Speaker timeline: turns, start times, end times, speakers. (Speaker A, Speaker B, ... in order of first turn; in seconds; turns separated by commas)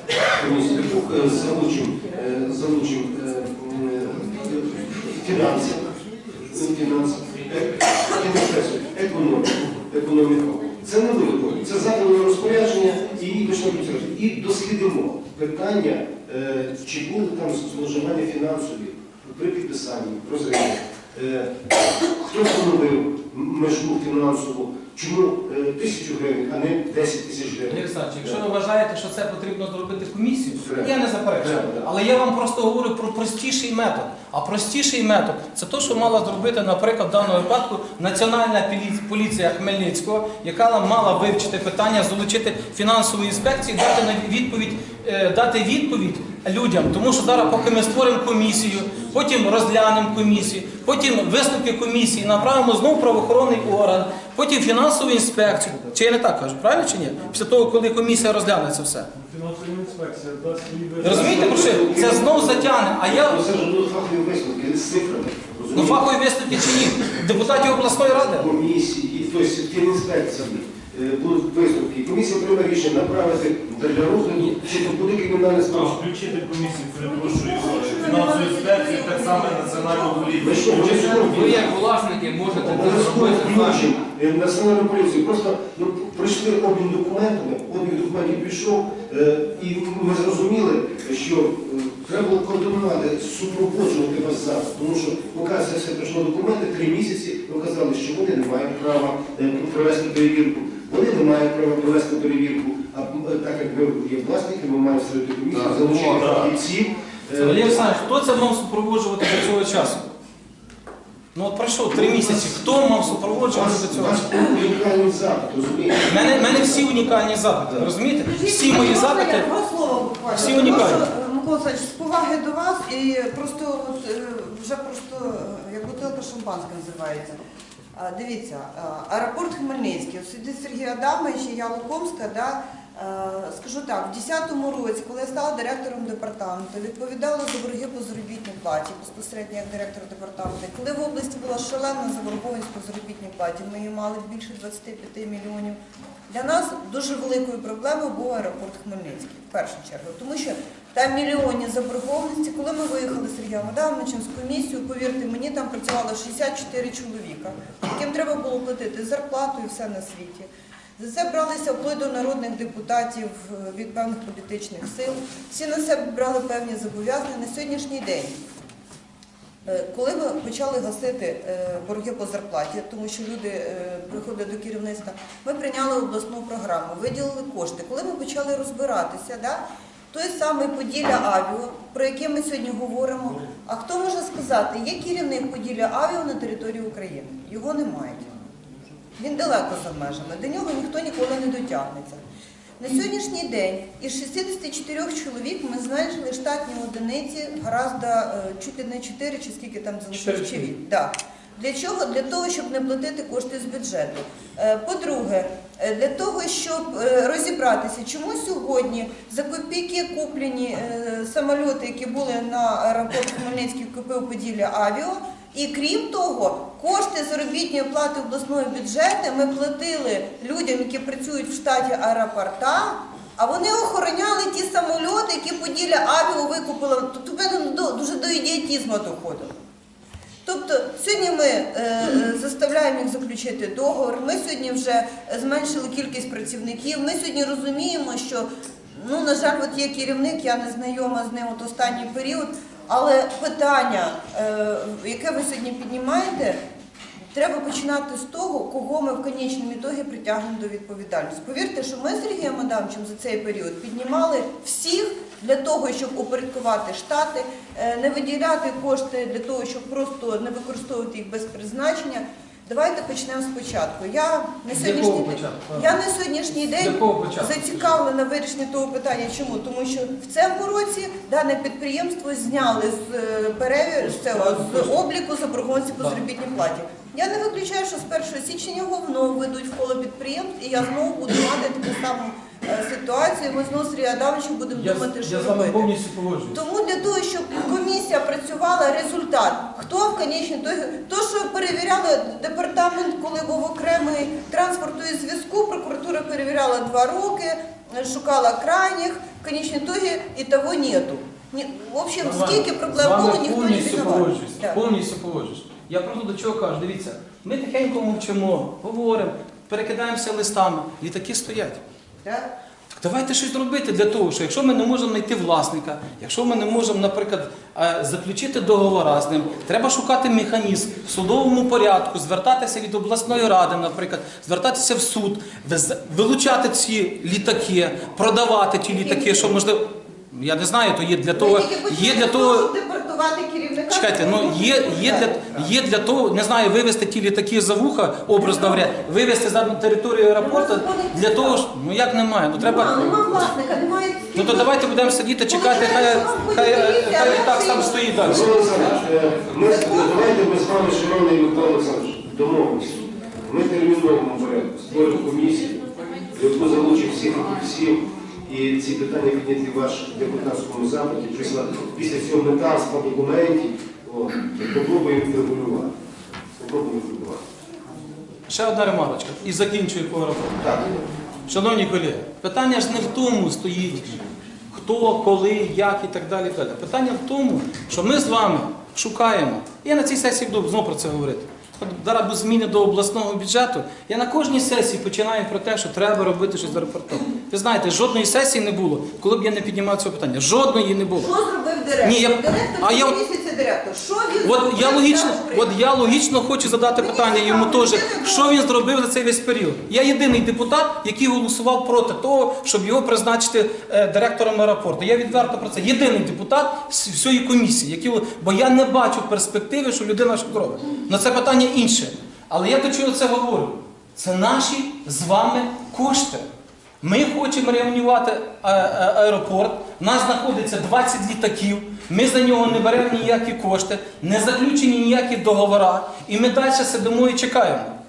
Speaker A: 0.3-5.8, Speaker A: 6.4-28.4, Speaker B: 27.7-59.1, Speaker A: 30.6-31.9, Speaker C: 59.2-61.1, Speaker B: 61.0-63.4, Speaker A: 61.0-66.0, Speaker B: 65.7-68.6, Speaker A: 68.1-76.1, Speaker C: 75.8-81.3, Speaker D: 76.7-81.3, Speaker A: 80.4-81.8, Speaker E: 81.3-83.8, Speaker A: 82.5-108.0, Speaker B: 107.4-110.0, Speaker B: 111.3-114.5, Speaker A: 111.9-112.6, Speaker A: 113.5-116.8, Speaker B: 116.1-119.5, Speaker D: 118.1-127.3, Speaker B: 120.3-121.0, Speaker D: 127.9-145.8, Speaker D: 146.3-168.4, Speaker D: 169.7-188.3, Speaker D: 189.2-192.2, Speaker D: 192.8-229.6, Speaker B: 200.1-200.7, Speaker D: 230.4-246.6, Speaker D: 247.3-285.9, Speaker B: 264.7-265.9, Speaker B: 266.8-267.9, Speaker B: 274.1-275.0, Speaker B: 284.7-286.6, Speaker D: 286.5-304.8, Speaker B: 302.2-311.8, Speaker D: 312.2-312.5, Speaker B: 312.9-332.7, Speaker D: 328.9-329.6, Speaker D: 331.3-335.4, Speaker B: 333.9-343.5, Speaker D: 338.4-338.8, Speaker D: 340.4-341.6, Speaker D: 342.5-348.9, Speaker B: 344.3-348.7, Speaker A: 348.2-355.8, Speaker D: 349.6-350.2, Speaker A: 356.3-365.9, Speaker A: 366.6-367.4, Speaker B: 368.5-370.6, Speaker A: 370.6-371.0, Speaker B: 371.5-374.2, Speaker B: 374.7-391.3, Speaker D: 391.2-395.9, Speaker B: 392.0-393.2, Speaker B: 394.4-416.4, Speaker D: 396.9-398.6, Speaker B: 417.0-427.9